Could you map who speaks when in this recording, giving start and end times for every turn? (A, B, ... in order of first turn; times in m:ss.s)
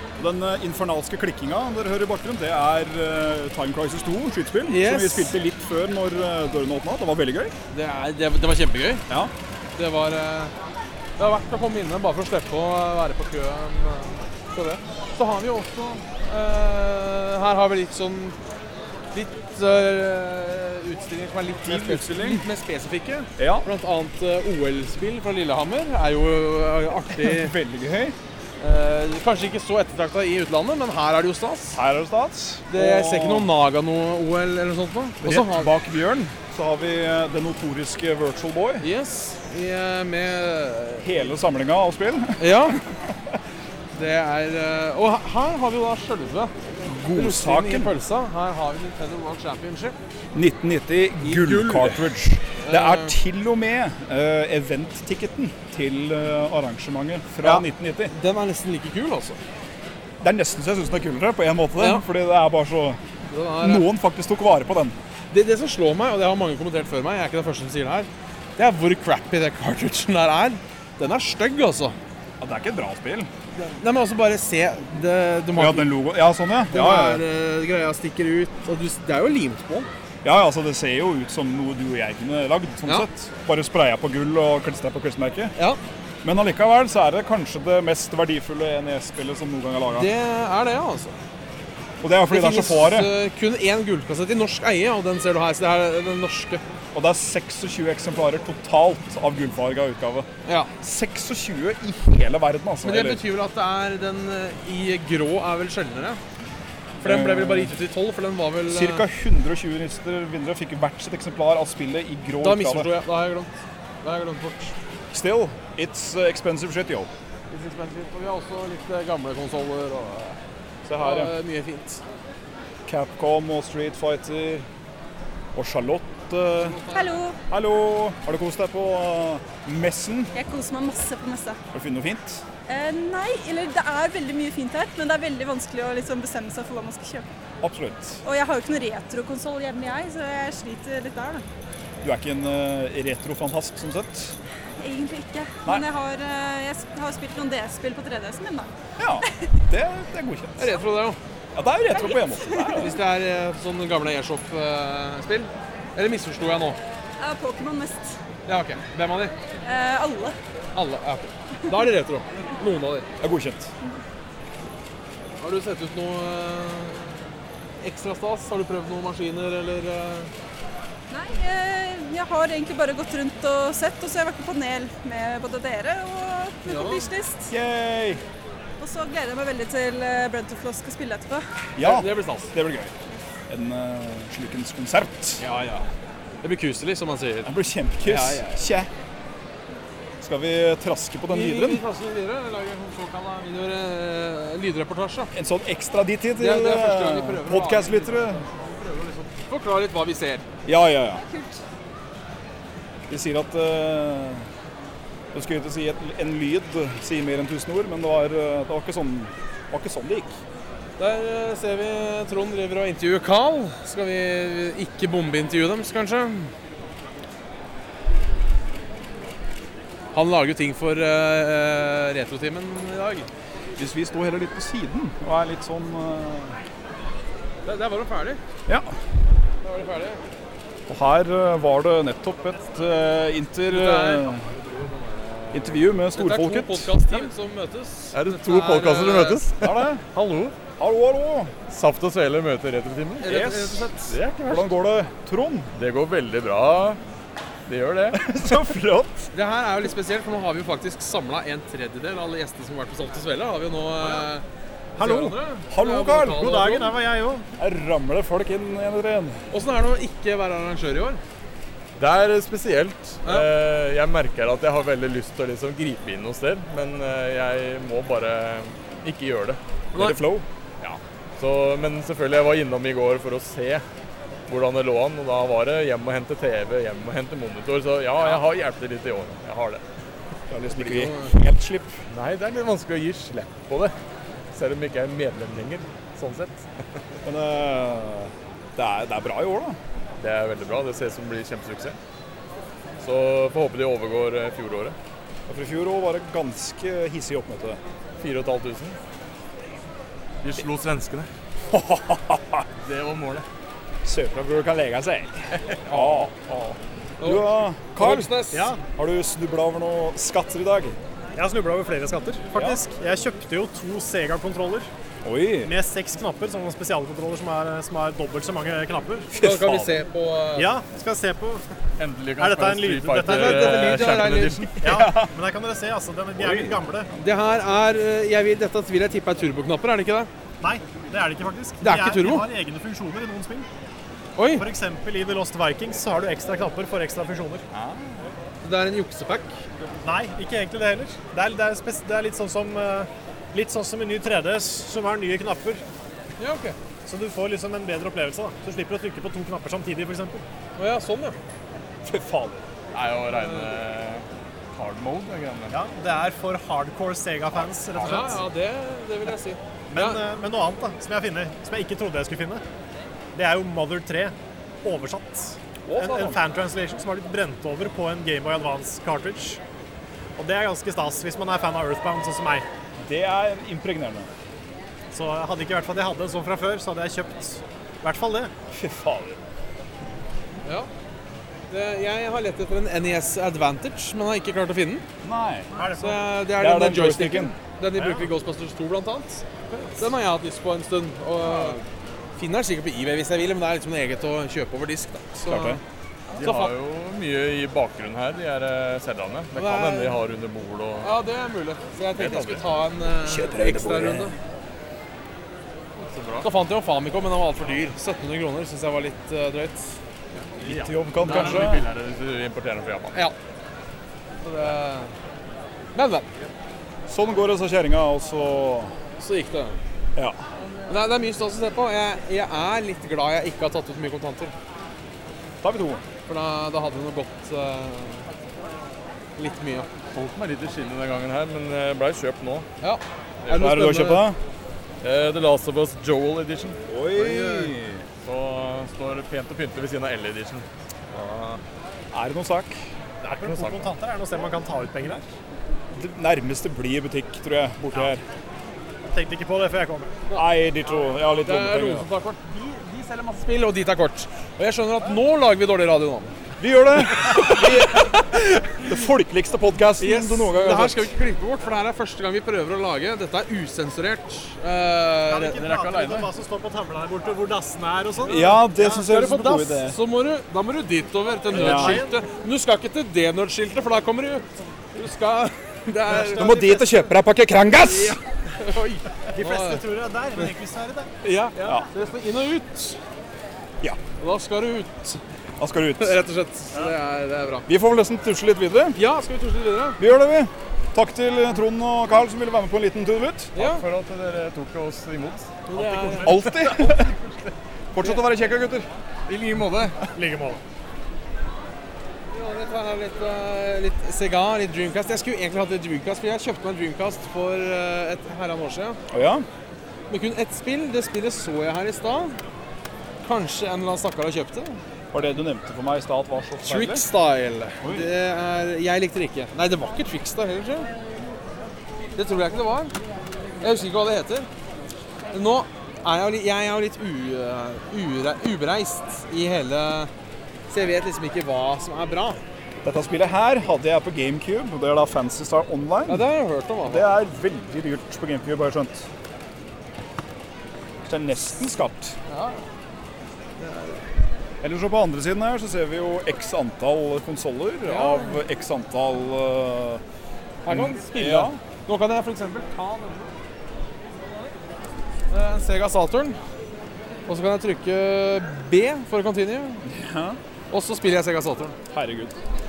0:00.2-0:07.5 A
0:04.7-0:05.3 B
0:07.7-0:09.0 B
0:09.1-0:09.3 A
0:09.8-0:10.5 B
0:11.2-0:18.4 B
0:19.1-0:27.5 B
0:21.6-0:22.4 A
0:23.4-0:23.7 A
0:27.1-0:28.2 A
0:28.6-0:31.8 B
0:31.7-0:33.5 A
0:32.7-0:35.7 B
0:35.2-0:38.9 A
0:38.8-0:41.2 B
0:41.0-0:43.1 A
0:42.4-0:42.8 B
0:43.9-0:46.5 B
0:46.8-0:47.9 A
0:47.1-0:50.0 B
0:50.3-0:58.1 A
0:51.2-0:53.2 B
0:57.4-0:59.4 B
1:00.2-1:03.0 A
1:01.8-1:02.0 B
1:03.3-1:03.9 B
1:03.6-1:05.0 A
1:05.3-1:12.0 B
1:12.4-1:13.3 A
1:13.5-1:15.9 B
1:15.6-1:17.2 A
1:16.7-1:19.9 B
1:20.2-1:25.5 A
1:26.2-1:30.1 A
1:29.9-1:31.2 B
1:32.0-1:33.2 A
1:32.3-1:36.6 B
1:36.9-1:40.3 A
1:40.4-1:40.7 B
1:40.8-1:43.2 A
1:42.8-1:46.2 B
1:47.0-1:49.0 B
1:47.0-1:47.7 A
1:48.7-1:52.9 A
1:52.4-1:53.5 B
1:54.0-1:54.7 B
1:55.1-1:57.1 A
1:57.5-2:00.4 B
2:00.8-2:01.3 A
2:01.0-2:02.0 B
2:02.8-2:04.7 A
2:05.5-2:06.8 A
2:06.6-2:07.2 B
2:06.9-2:07.4 C
2:07.5-2:10.3 A
2:10.3-2:11.6 C
2:11.7-2:12.4 A
2:12.7-2:17.2 C
2:17.6-2:18.2 A
2:18.2-2:21.4 C
2:22.0-2:24.4 A
2:24.8-2:28.7 C
2:29.0-2:30.8 A
2:30.6-2:31.2 B
2:31.5-2:33.0 A
2:32.0-2:32.8 C
2:32.7-2:36.8 B
2:37.2-2:38.2 C
2:38.5-2:39.3 B
2:39.6-2:40.4 C
2:40.7-2:43.1 B
2:43.2-2:43.7 A
2:45.4-2:47.2 B
2:47.8-2:50.3 B
2:51.1-2:57.5 C
2:56.6-2:57.1 B
2:57.5-2:58.2 A
2:58.8-3:01.4 C
3:01.8-3:02.9 A
3:01.8-3:02.5 B
3:03.5-3:05.4 A
3:05.4-3:05.9 B
3:06.4-3:07.5 B
3:07.4-3:08.9 A
3:08.0-3:08.6 B
3:10.2-3:11.8 A
3:11.3-3:15.3 B
3:15.3-3:18.4 A
3:16.4-3:20.4 B
3:20.6-3:21.2 A
3:21.2-3:21.6 C
3:23.1-3:24.5 A
3:25.3-3:30.4 A
3:31.0-3:36.5 B
3:40.1-3:43.3 B
3:43.8-3:46.6 A
3:47.6-3:48.4 B
3:49.6-3:50.2 B
3:50.9-3:54.5 A
3:53.7-3:54.3 B
3:55.5-3:57.0 A
3:56.1-3:59.4 B
3:58.1-4:00.6 D
3:59.6-4:00.0 A
4:00.8-4:01.5 A
4:01.7-4:03.4 D
4:03.2-4:04.1 B
4:03.2-4:05.7 A
4:04.1-4:04.8 D
4:05.7-4:07.0 D
4:07.7-4:08.3 D
4:08.1-4:09.3 A
4:09.3-4:14.4 B
4:15.0-4:17.0 B
4:15.0-4:16.7 A
4:16.3-4:17.5 E
4:17.6-4:19.4 A
4:19.5-4:21.2 B
4:22.0-4:29.6 D
4:29.9-4:30.2 B
4:29.9-4:30.4 A
4:30.8-4:33.8 D
4:34.5-4:39.8 D
4:40.5-4:42.0 A
4:40.8-4:41.3 B
4:42.1-4:43.9 D
4:44.5-4:46.7 D
4:47.2-4:49.8 A
4:50.2-4:52.0 D
4:53.0-4:55.0 D
4:55.5-4:57.8 A
4:58.2-4:59.0 D
5:00.4-5:01.3 D
5:01.7-5:02.6 A
5:02.8-5:03.4 D
5:04.0-5:11.0 A
5:05.9-5:06.3 B
5:07.2-5:08.7 B
5:08.5-5:08.8 E
5:11.3-5:14.9 E
5:12.5-5:12.8 A
5:15.2-5:15.7 A
5:15.6-5:19.3 E
5:19.3-5:20.0 A
5:19.4-5:20.7 B
5:20.6-5:21.7 E
5:22.0-5:25.0 D
5:22.4-5:24.1 E
5:23.2-5:24.7 B
5:24.8-5:25.3 A
5:24.8-5:27.1 E
5:26.4-5:26.8 A
5:27.2-5:30.3 B
5:30.6-5:33.7 E
5:31.8-5:32.5 B
5:34.4-5:34.7 B
5:34.6-5:37.6 E
5:38.6-5:39.6 B
5:40.0-5:45.8 E
5:46.4-5:46.8 B
5:47.0-5:50.4 E
5:50.8-5:51.4 B
5:52.0-5:52.6 A
5:52.9-5:55.8 D
5:53.3-5:53.7 B
5:55.7-5:58.4 E
5:57.9-5:58.2 D
5:58.0-6:00.2 B
5:59.9-6:02.6 E
6:03.3-6:09.6 E
6:05.8-6:06.4 A
6:10.4-6:12.6 E
6:13.0-6:14.3 A
6:15.1-6:18.5 E
6:18.7-6:19.4 A
6:20.6-6:20.9 B
6:21.7-6:25.0 B
6:25.2-6:25.9 A
6:25.7-6:26.2 E
6:26.0-6:31.8 B
6:26.5-6:27.5 A
6:32.4-6:35.8 B
6:35.4-6:35.8 A
6:36.3-6:41.1 D
6:36.4-6:36.7 B
6:39.5-6:40.2 B
6:41.0-6:44.4 B
6:42.2-6:42.6 D
6:43.2-6:44.3 A
6:46.0-6:46.5 D
6:46.4-6:50.0 B
6:50.6-6:53.2 D
6:50.6-6:51.8 A
6:51.2-6:51.8 B
6:54.4-6:55.1 B
6:55.9-6:56.3 B
6:57.1-6:58.9 A
6:59.2-6:59.8 B
7:00.9-7:04.5 B
7:05.6-7:06.0 A
7:06.3-7:08.3 B
7:09.4-7:09.9 B
7:10.1-7:12.6 D
7:12.8-7:14.3 B
7:13.4-7:13.7 D
7:13.5-7:14.4 A
7:15.0-7:16.8 D
7:16.8-7:18.0 A
7:17.1-7:17.7 B
7:18.2-7:21.6 D
7:22.1-7:22.9 A
7:23.2-7:25.3 E
7:23.4-7:23.9 D
7:25.9-7:28.2 A
7:29.1-7:30.2 E
7:30.3-7:32.1 A
7:31.4-7:36.4 B
7:36.6-7:41.1 A
7:37.2-7:38.2 B
7:40.0-7:45.6 B
7:45.3-7:49.0 E
7:45.6-7:46.3 D
7:48.2-7:50.0 A
7:48.8-7:57.0 B
7:51.5-7:52.0 A
7:51.5-7:52.2 E
7:56.1-7:58.2 A
7:57.8-7:59.8 B
7:59.3-8:01.1 E
8:01.2-8:03.0 B
8:01.6-8:01.9 A
8:04.2-8:05.2 B
8:05.6-8:06.2 A
8:06.0-8:07.7 B
8:07.7-8:09.0 A
8:08.9-8:10.0 B
8:10.0-8:13.5 A
8:13.5-8:13.8 B
8:13.6-8:17.5 D
8:15.7-8:16.4 B
8:16.2-8:17.1 A
8:17.9-8:18.9 A
8:19.3-8:20.1 D
8:20.1-8:20.6 E
8:22.3-8:29.0 B
8:29.1-8:29.4 A
8:30.1-8:32.4 B
8:33.2-8:34.8 B
8:35.1-8:37.0 A
8:36.6-8:40.9 B
8:37.8-8:38.1 A
8:42.2-8:42.9 B
8:43.6-8:44.5 B
8:45.3-8:50.1 B
8:50.7-8:52.4 B
8:52.8-8:56.3 A
8:56.1-8:57.1 B
8:56.8-8:59.1 A
9:01.0-9:02.2 A
9:02.3-9:02.6 B
9:03.6-9:04.1 B
9:04.6-9:10.0 A
9:07.8-9:08.4 B
9:10.6-9:13.3 B
9:10.7-9:11.6 A
9:15.3-9:16.4 B
9:17.3-9:19.8 B
9:19.8-9:20.4 A
9:20.7-9:21.8 B
9:21.9-9:22.3 A